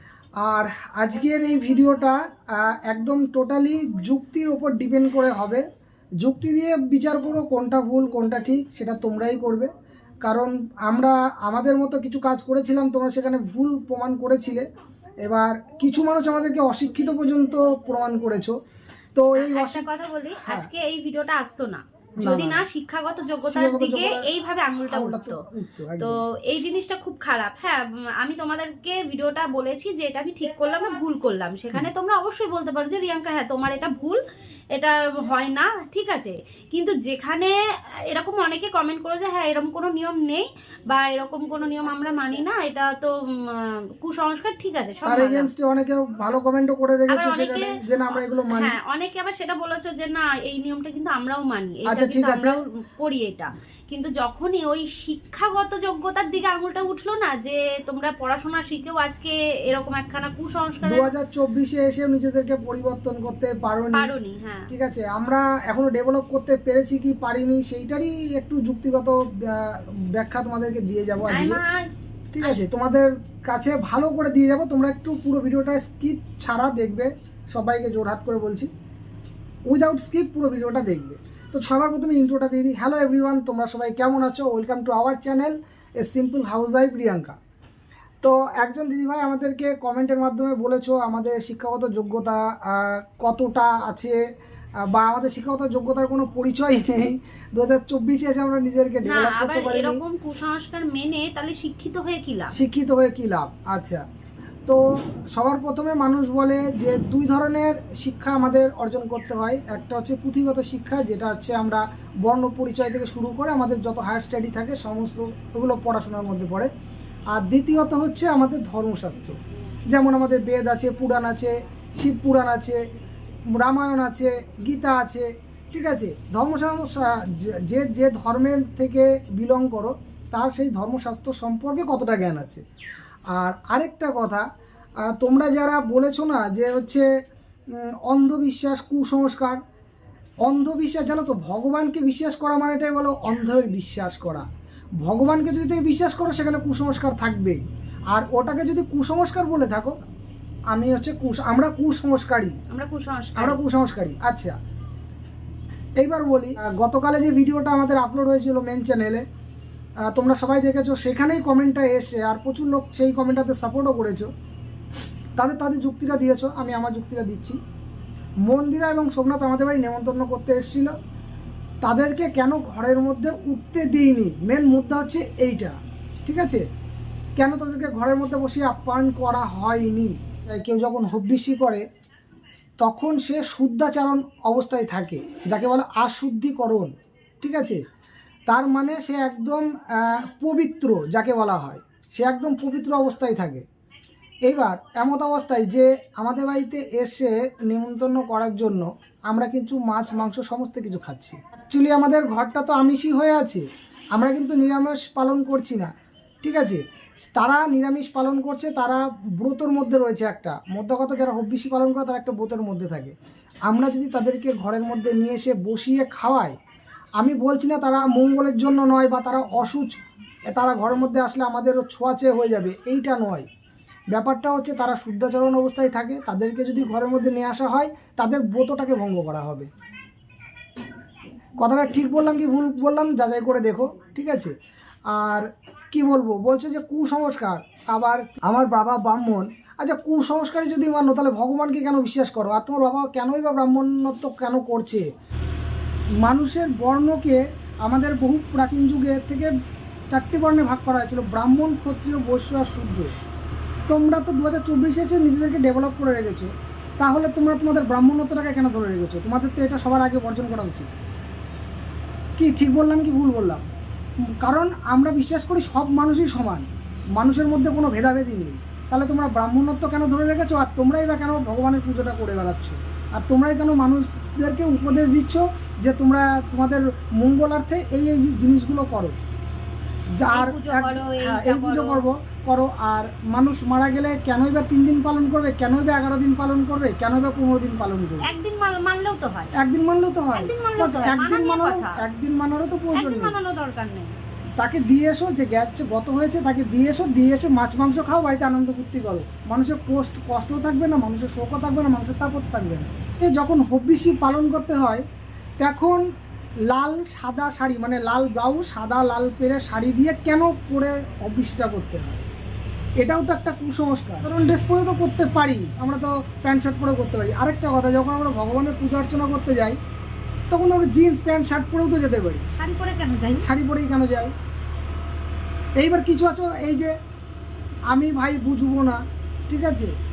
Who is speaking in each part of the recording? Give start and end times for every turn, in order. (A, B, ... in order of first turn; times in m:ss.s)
0:00.4-0:05.6 A
0:06.2-0:09.7 A
0:10.2-0:14.7 A
0:15.2-0:18.6 A
0:19.2-0:19.8 A
0:19.4-0:25.4 B
0:20.4-0:20.7 A
0:22.2-0:22.6 A
0:23.4-0:24.3 A
0:24.9-0:26.2 A
0:26.0-0:34.2 B
0:34.7-0:37.5 B
0:38.1-0:45.5 B
0:45.0-0:48.8 A
0:47.1-1:01.1 B
0:51.8-0:52.6 A
1:00.8-1:04.1 A
1:03.9-1:04.7 B
1:04.7-1:11.6 A
1:11.3-1:11.9 B
1:12.3-1:18.7 A
1:19.7-1:27.4 A
1:28.2-1:34.2 A
1:34.9-1:40.0 A
1:39.0-1:42.5 B
1:42.5-1:44.0 A
1:45.3-1:56.7 A
1:57.3-1:59.4 A
1:59.9-2:02.8 A
2:03.5-2:12.6 A
2:13.3-2:14.4 A
2:15.1-2:17.0 A
2:18.0-2:19.6 A
2:20.4-2:24.4 A
2:25.0-2:30.0 A
2:30.7-2:32.6 A
2:32.7-2:33.6 B
2:33.4-2:34.5 A
2:36.0-2:39.2 A
2:40.1-2:44.3 A
2:45.4-2:47.6 A
2:48.4-2:50.9 A
2:51.8-2:56.6 A
2:57.4-3:01.8 A
3:02.8-3:07.8 A
3:08.5-3:13.6 A
3:14.5-3:23.6 A
3:24.2-3:25.9 A
3:26.4-3:26.8 A
3:27.3-3:33.1 A
3:33.7-3:36.5 A
3:37.2-3:40.0 A
3:40.5-3:43.4 A
3:44.1-3:49.7 A
3:51.6-3:54.5 A
3:55.1-4:05.0 A
4:06.2-4:09.5 A
4:10.1-4:13.1 A
4:13.9-4:21.0 A
4:22.4-4:23.6 A
4:24.4-4:39.1 A
4:40.2-4:48.2 A
4:40.3-4:42.0 B
4:48.2-4:49.5 B
4:49.5-4:53.4 A
4:50.3-4:52.0 B
4:52.9-4:54.1 B
4:54.6-5:05.0 A
5:05.6-5:06.0 A
5:06.7-5:12.3 A
5:13.0-5:19.8 A
5:20.5-5:22.5 A
5:22.5-5:23.5 B
5:23.4-5:24.3 A
5:25.8-5:26.9 A
5:27.9-5:29.9 A